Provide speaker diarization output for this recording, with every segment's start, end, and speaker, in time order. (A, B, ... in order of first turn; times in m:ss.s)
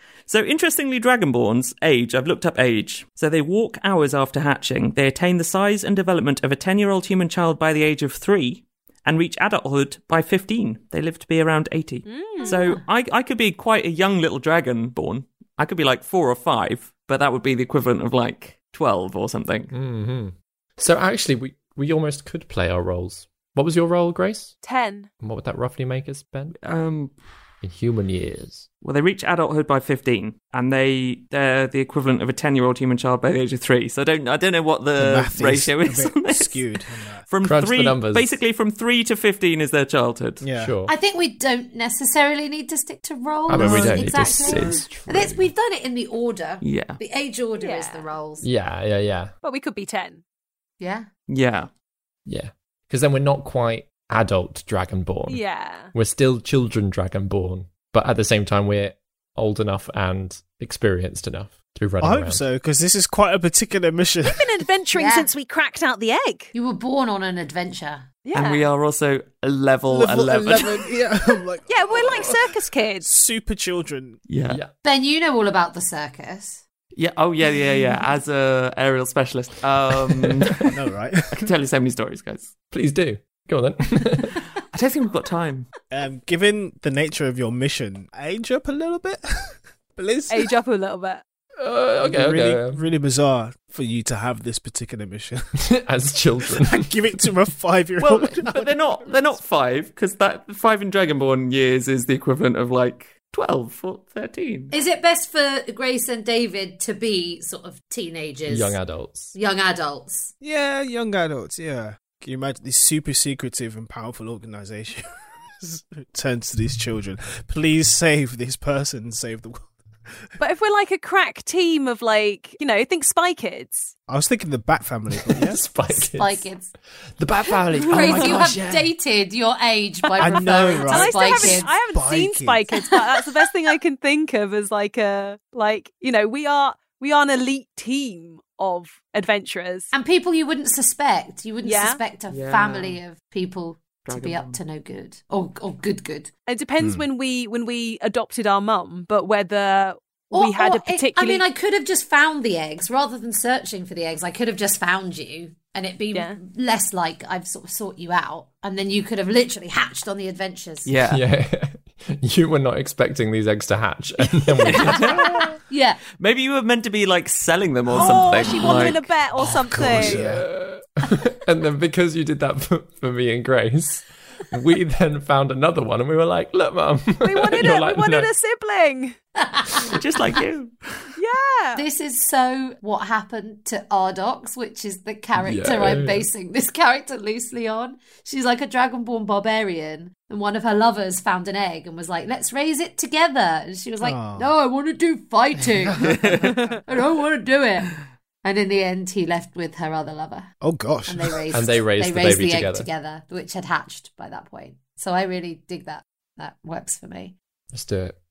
0:00.3-0:19.7 A
0:12.0-0:12.6 B
0:12.4-0:12.8 C
0:19.7-0:24.6 D
0:24.6-0:25.1 B
0:25.2-0:26.6 D
0:26.6-0:27.4 A
0:27.6-0:28.7 D
0:28.8-0:40.4 A
0:35.0-0:37.2 E
0:37.4-0:38.4 D
0:40.4-0:40.7 E
0:40.5-0:40.9 D
0:40.8-0:48.4 C
0:43.5-0:45.5 D
0:43.6-0:44.6 A
0:46.6-0:47.0 A
0:47.6-0:48.1 B
0:48.4-0:49.3 D
0:49.4-0:50.2 B
0:50.8-0:51.1 C
0:51.3-0:51.7 A
0:52.3-1:02.4 D
0:55.3-0:55.9 B
1:02.0-1:04.5 E
1:04.2-1:06.5 B
1:04.9-1:05.3 C
1:06.5-1:08.1 C
1:08.2-1:08.7 B
1:08.3-1:10.8 A
1:09.8-1:14.2 E
1:11.7-1:13.1 B
1:14.3-1:14.6 A
1:14.5-1:14.7 D
1:14.8-1:16.6 C
1:16.9-1:20.7 A
1:20.6-1:21.5 E
1:21.3-1:22.5 A
1:22.7-1:24.4 D
1:24.7-1:25.7 A
1:25.9-1:30.5 E
1:30.3-1:31.2 B
1:31.6-1:32.8 D
1:32.0-1:35.4 E
1:35.6-1:36.9 D
1:36.6-1:39.1 E
1:38.0-1:44.7 A
1:44.7-1:48.8 C
1:48.5-1:49.3 D
1:49.3-1:50.3 C
1:50.4-2:00.2 E
2:00.4-2:03.9 B
2:04.1-2:05.6 E
2:05.2-2:06.5 D
2:05.9-2:06.7 C
2:07.2-2:08.9 D
2:07.9-2:11.7 C
2:10.2-2:12.6 E
2:10.8-2:19.9 B
2:19.9-2:26.3 C
2:21.6-2:22.0 B
2:22.3-2:23.0 A
2:24.0-2:24.6 A
2:26.5-2:31.4 B
2:26.8-2:27.0 E
2:30.3-2:40.9 C
2:36.1-2:36.4 B
2:40.8-2:41.2 A
2:41.0-2:45.6 D
2:44.6-2:46.0 C
2:44.7-2:45.2 A
2:46.2-2:49.1 A
2:48.0-2:50.2 B
2:49.5-2:50.4 E
2:49.8-2:58.3 D
2:57.2-2:59.2 B
2:59.4-2:59.9 C
2:59.9-3:01.1 A
3:01.2-3:01.8 B
3:01.7-3:20.5 C
3:05.4-3:06.3 D
3:14.0-3:14.5 E
3:15.6-3:16.5 E
3:20.6-3:21.5 E
3:21.1-3:27.4 C
3:21.5-3:22.9 D
3:27.7-3:28.2 D